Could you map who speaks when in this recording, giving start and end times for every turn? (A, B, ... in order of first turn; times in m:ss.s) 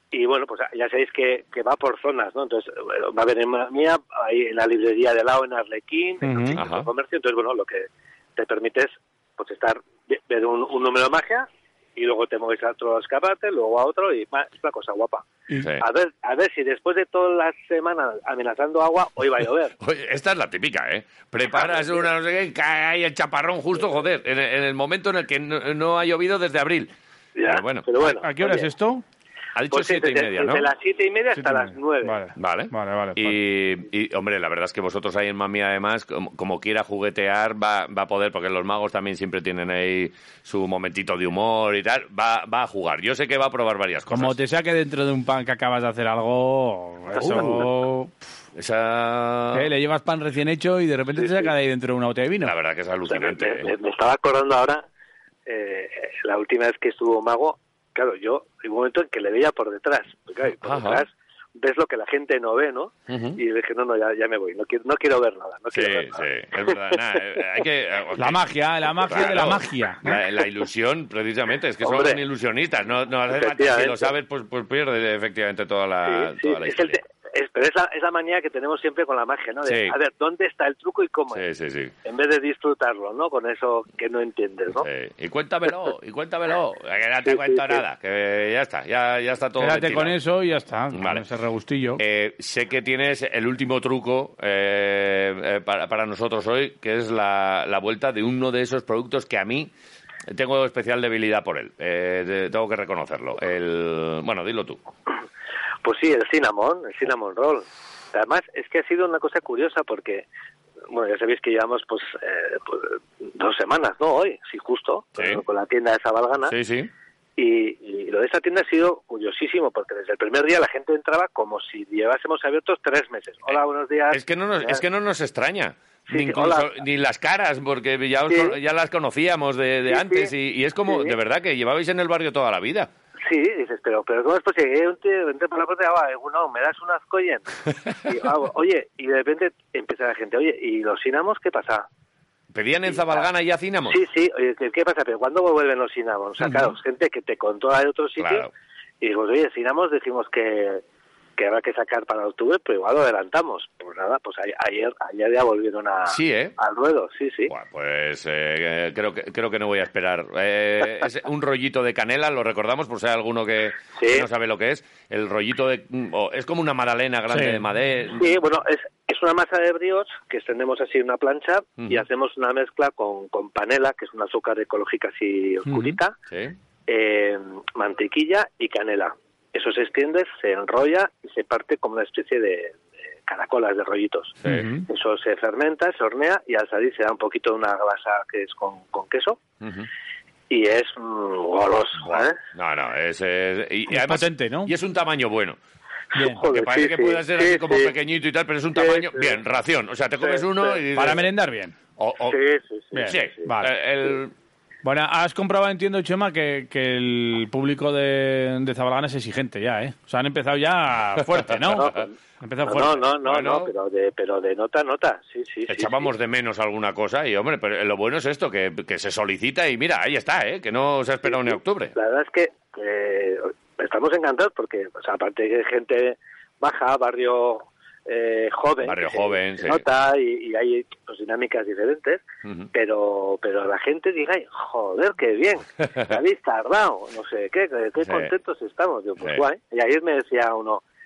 0:00.1-0:15.3 A
0:06.2-0:06.6 B
0:06.6-0:06.9 C
0:15.8-0:19.7 A
0:19.8-0:26.9 C
0:21.5-0:22.1 A
0:27.4-0:28.7 A
0:27.4-0:27.9 C
0:28.0-0:29.0 B
0:29.6-0:30.7 C
0:29.7-0:32.2 A
0:31.4-0:33.4 B
0:32.4-0:44.4 C
0:44.1-0:48.1 B
0:47.2-0:47.7 C
0:48.6-0:49.7 C
0:49.5-0:52.5 B
0:51.2-0:51.5 A
0:52.4-0:53.7 C
0:53.1-0:54.8 A
0:55.5-1:06.8 A
1:00.6-1:01.0 C
1:03.1-1:03.4 C
1:05.7-1:17.0 C
1:08.2-1:10.2 B
1:11.8-1:12.2 A
1:13.3-1:14.1 A
1:16.0-1:21.4 A
1:19.6-1:20.0 C
1:21.3-1:21.9 C
1:22.0-1:24.9 A
1:24.8-1:30.2 C
1:27.3-1:27.8 A
1:29.6-1:32.0 B
1:30.9-1:31.2 C
1:32.0-1:39.7 C
1:40.3-1:44.8 C
1:45.8-1:50.3 A
1:50.9-1:56.6 A
1:55.2-1:55.4 C
1:56.4-1:56.9 C
1:57.4-2:04.8 A
2:03.5-2:12.9 C
2:06.1-2:06.8 A
2:08.3-2:08.6 A
2:09.9-2:10.3 A
2:10.9-2:11.2 A
2:13.2-2:17.4 A
2:18.1-2:21.9 A
2:22.5-2:24.0 C
2:22.9-2:23.3 A
2:23.9-2:28.5 A
2:26.4-2:26.8 C
2:28.2-2:28.5 C
2:29.0-2:30.8 A
2:31.4-2:37.5 A
2:36.1-2:36.6 C
2:37.5-2:48.4 C
2:43.9-2:44.3 A
2:47.3-2:47.6 B
2:48.2-2:56.2 A
2:51.8-2:52.0 C
2:55.7-2:56.0 B
2:56.3-2:56.6 C
2:56.9-3:04.4 A
3:04.4-3:04.7 C
3:04.4-3:04.8 B
3:04.9-3:09.4 A
3:09.6-3:09.9 C
3:10.5-3:12.4 A
3:12.0-3:15.6 C
3:13.9-3:14.7 B
3:16.1-3:16.4 B
3:16.2-3:18.0 A
3:16.4-3:21.3 C
3:18.8-3:19.4 A
3:20.2-3:20.8 A
3:20.9-3:21.8 B
3:22.0-3:22.4 C
3:22.3-3:23.3 A
3:22.9-3:23.7 B
3:23.1-3:24.3 C
3:24.8-3:33.1 B
3:31.4-3:32.0 C
3:31.7-3:32.1 A
3:32.6-3:36.1 A
3:33.2-3:33.7 C
3:35.7-3:41.9 C
3:41.3-4:00.8 A
3:48.8-3:49.8 C
3:58.0-3:58.3 C
3:59.2-3:59.4 C